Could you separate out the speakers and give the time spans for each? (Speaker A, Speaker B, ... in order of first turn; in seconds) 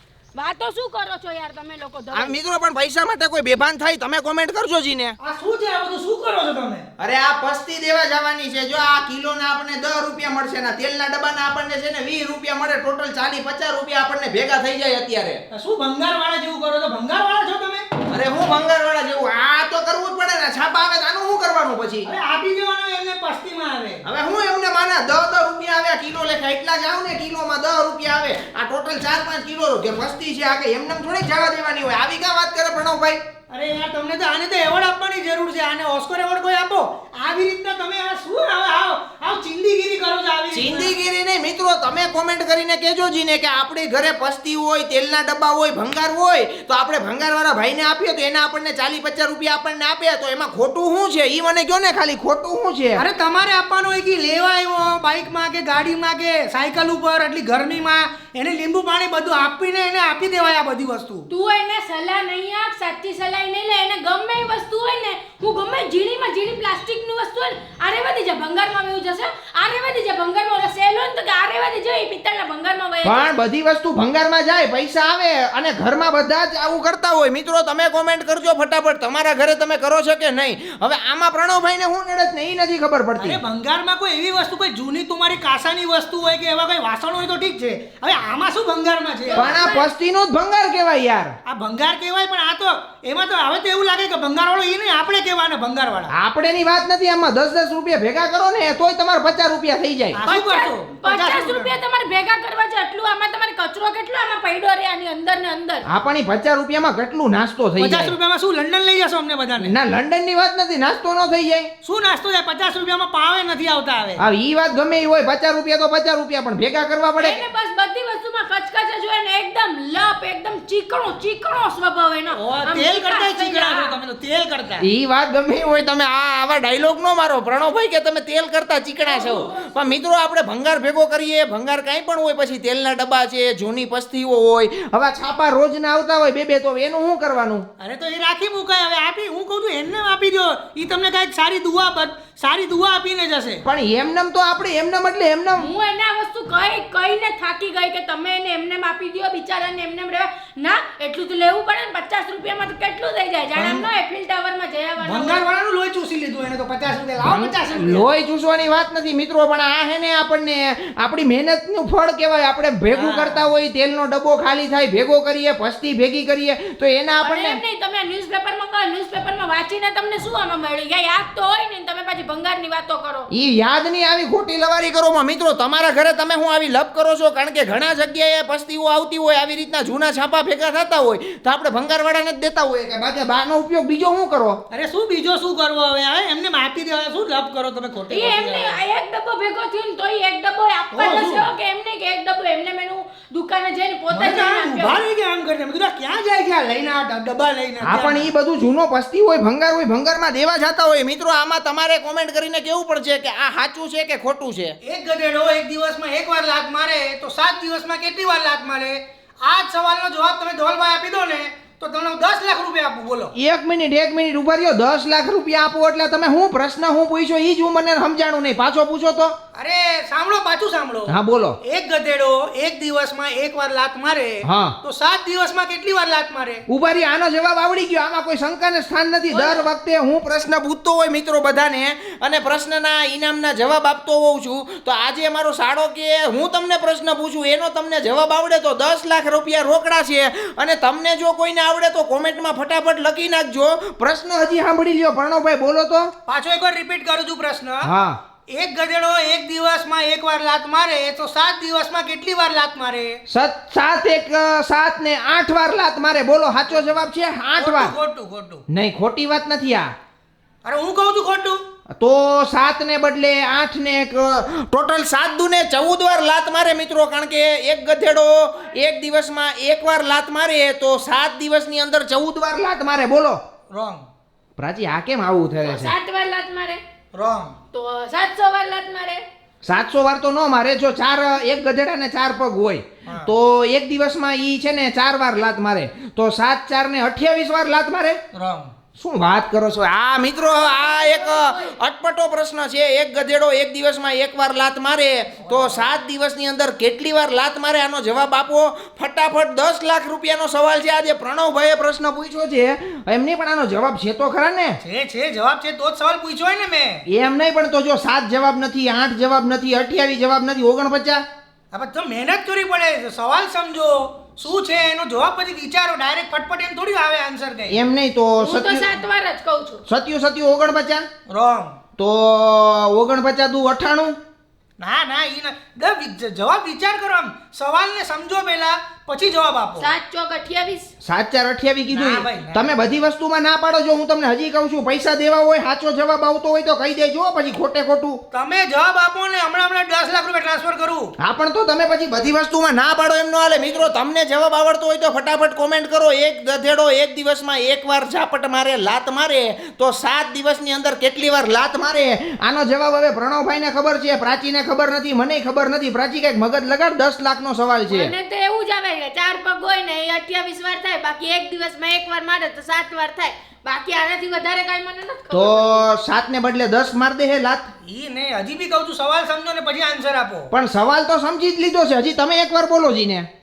Speaker A: 0.3-2.4, 61.3-73.3, 89.2-89.9, 100.3-105.8, 117.2-124.0, 145.6-155.4, 167.2-173.3, 188.1-195.0, 275.6-276.8, 277.7-279.2, 290.4-291.8, 318.4-319.8, 329.8-330.9, 357.9-365.9
Speaker B: 2.1-5.2, 7.0-15.4, 18.1-22.1, 24.1-33.2, 40.5-53.0, 73.0-83.4, 89.3-91.4, 96.1-100.2, 105.9-108.1, 109.6-111.7, 114.2-117.4, 124.8-137.7, 143.6-145.7, 157.2-167.6, 173.3-184.6, 197.8-204.8, 213.3-219.3, 221.1-221.6, 224.4-224.8, 226.7-246.1, 247.8-248.2, 253.3-257.9, 258.7-259.9, 262.0-273.4, 274.6-275.9, 279.6-288.2, 289.0-304.8, 307.1-311.2, 317.7-318.9, 319.9-321.1, 322.0-324.2, 331.0-338.2, 341.2-358.1, 365.3-367.7, 370.5-373.3
Speaker C: 5.2-6.9, 15.5-17.9, 22.0-24.0, 33.5-40.9, 53.0-61.3, 83.2-89.6, 91.5-96.1, 100.1-101.8, 107.8-109.8, 111.8-114.2, 122.3-124.8, 129.1-129.8, 137.8-143.6, 153.6-153.9, 155.0-158.1, 162.9-163.5, 184.7-188.8, 190.9-191.5, 194.1-198.3, 204.8-213.3, 219.5-226.6, 229.3-229.7, 246.2-247.9, 248.5-253.2, 257.6-258.6, 260.6-261.6, 273.7-274.1, 277.1-277.6, 283.1-283.3, 288.3-288.7, 295.5-295.9, 304.8-307.1, 311.7-317.8, 321.3-321.8, 324.8-329.9, 331.9-332.8, 338.3-341.1, 367.8-370.5